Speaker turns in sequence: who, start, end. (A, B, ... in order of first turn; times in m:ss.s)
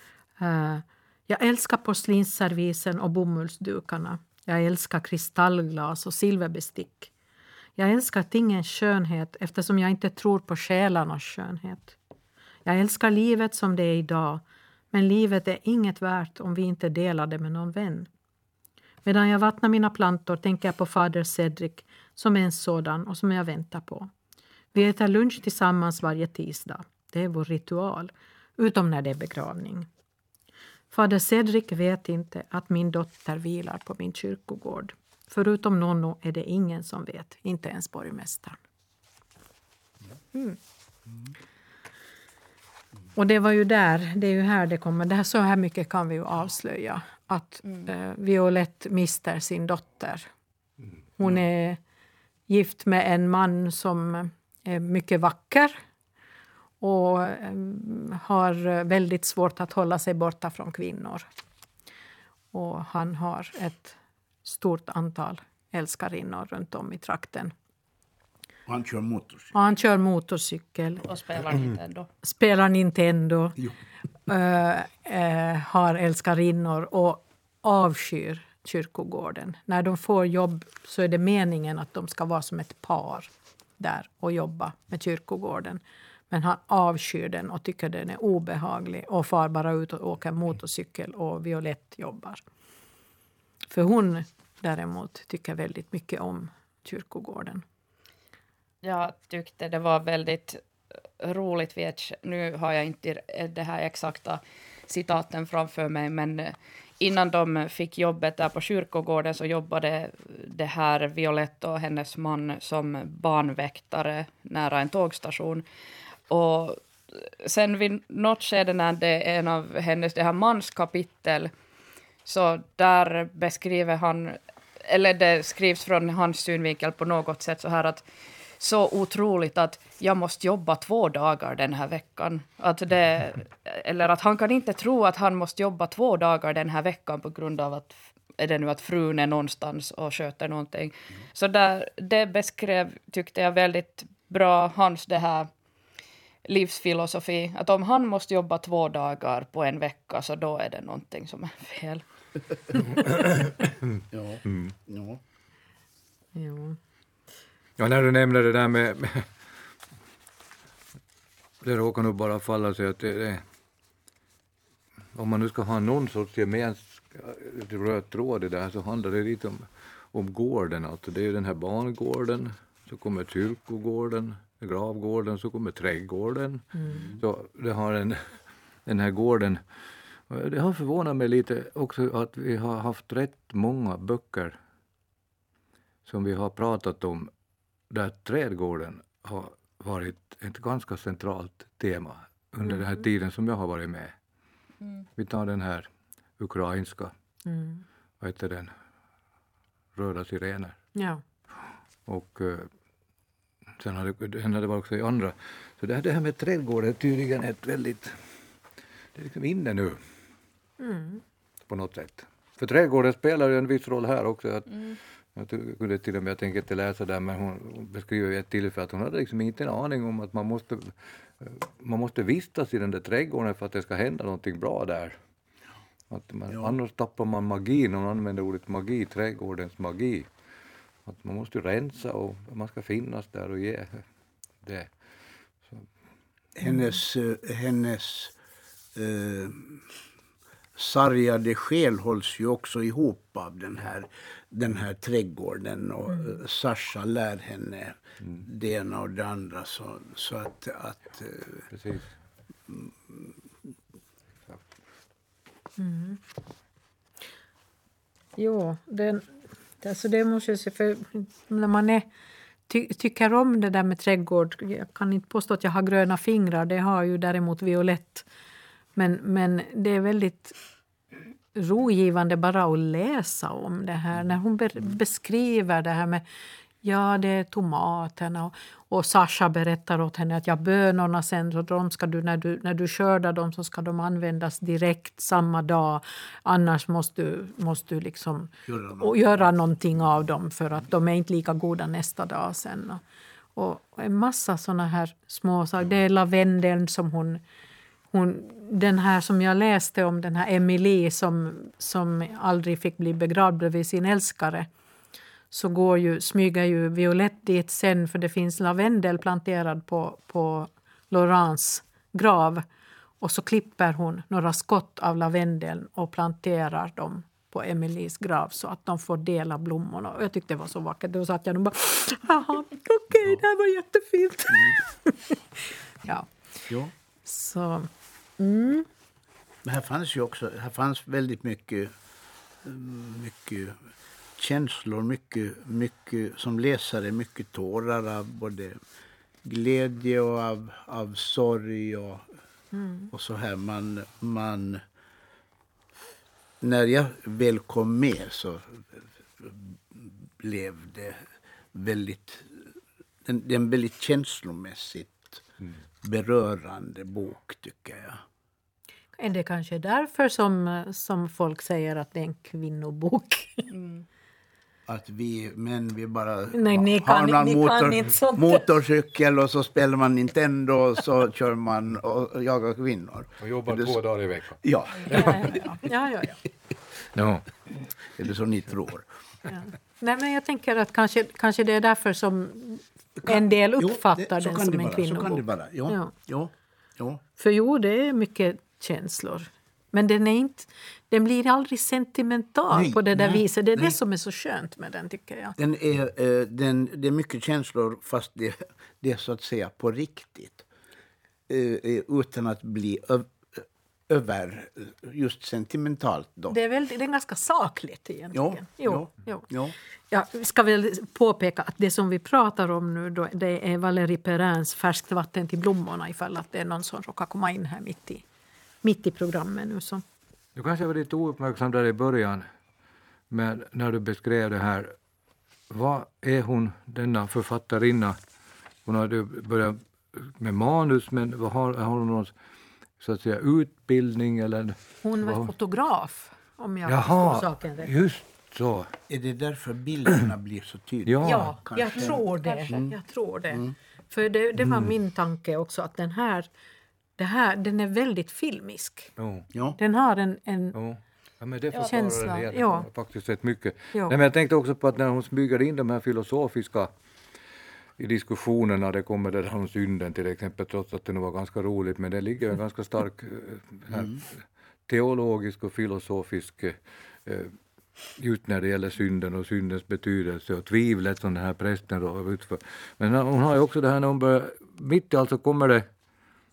0:00.4-0:07.1 A
0:07.8-0:12.0 A
0:12.7-0:18.1 A
0:19.0-0:24.1 A
0:24.7-0:29.9 A
0:30.9-0:38.6 A
0:43.2-0:50.3 A
0:51.2-0:51.8 A
0:52.5-0:55.8 A
0:56.8-1:01.3 A
1:02.5-1:07.5 A
1:08.7-1:09.5 B
1:09.5-1:11.0 A
1:11.0-1:12.1 C
1:12.2-1:13.6 A
1:14.3-1:32.4 A
1:33.7-1:37.6 A
1:38.8-1:40.6 C
1:41.2-1:55.6 C
1:56.3-2:01.5 C
2:02.2-2:08.1 C
2:08.6-2:25.5 C
2:26.4-2:32.0 C
2:33.0-2:33.8 D
2:34.1-2:35.2 B
2:36.4-2:36.8 A
2:37.8-2:39.3 D
2:41.6-2:43.4 D
2:45.2-2:59.6 D
2:56.8-2:57.0 A
2:56.9-2:57.2 B
3:00.3-3:04.6 D
3:06.1-3:07.3 D
3:07.9-3:14.2 D
3:15.2-3:15.9 D
3:16.4-3:17.1 D
3:17.5-3:17.8 A
3:18.2-3:18.7 D
3:20.0-3:20.8 D
3:21.0-3:21.2 A
3:22.1-3:22.7 D
3:23.8-3:28.2 D
3:29.2-3:30.0 D
3:30.8-3:31.2 A
3:31.7-3:45.2 D
3:46.1-3:50.3 D
3:46.5-3:46.8 B
3:51.0-3:54.0 D
3:54.6-3:54.9 D
3:56.6-3:58.3 B
3:59.0-3:59.8 B
4:00.8-4:11.7 B
4:06.1-4:06.4 A
4:11.7-4:12.1 D
4:12.7-4:13.3 B
4:15.8-4:16.2 A
4:18.4-4:19.3 A
4:19.8-4:22.1 A
4:22.7-4:28.3 A
4:29.0-4:30.6 A
4:31.5-4:36.2 A
4:36.8-4:53.0 A
4:48.7-4:49.2 B
4:53.6-4:57.4 A
4:58.1-5:04.7 A
5:05.5-5:12.6 A
5:13.2-5:26.3 A
5:24.5-5:24.8 B
5:26.7-5:26.9 B
5:27.2-5:28.9 A
5:29.6-5:31.9 B
5:32.6-5:33.9 B
5:34.4-5:38.8 B
5:39.4-5:42.2 B
5:42.7-5:43.1 A
5:43.1-5:44.8 B
5:46.6-5:51.2 B
5:51.7-5:52.7 B
5:53.2-5:55.4 B
5:56.0-5:58.2 B
5:59.2-6:03.7 A
6:03.7-6:04.0 C
6:04.9-6:14.0 B
6:06.5-6:08.7 A
6:13.4-6:15.5 D
6:14.6-6:15.6 B
6:15.1-6:16.4 A
6:17.1-6:17.5 D
6:18.2-6:19.0 B
6:19.5-6:26.1 A
6:23.2-6:27.2 B
6:27.4-6:35.6 A
6:32.7-6:34.0 B
6:35.6-6:40.7 B
6:41.5-6:46.6 B
6:46.5-6:49.5 A
6:48.3-6:49.8 B
6:50.1-6:58.2 A
6:58.8-7:00.0 A
7:00.6-7:02.5 D
7:03.3-7:05.0 D
7:05.7-7:08.2 D
7:08.9-7:12.3 D
7:13.0-7:15.5 D
7:15.0-7:17.9 A
7:16.9-7:18.9 D
7:19.1-7:22.9 B
7:21.1-7:21.6 D
7:21.2-7:26.5 A
7:22.4-7:22.8 C
7:27.2-7:29.1 A
7:29.2-7:29.5 D
7:29.8-7:30.8 A
7:30.7-7:36.9 D
7:31.8-7:32.9 A
7:38.0-7:47.5 D
7:48.2-7:55.9 D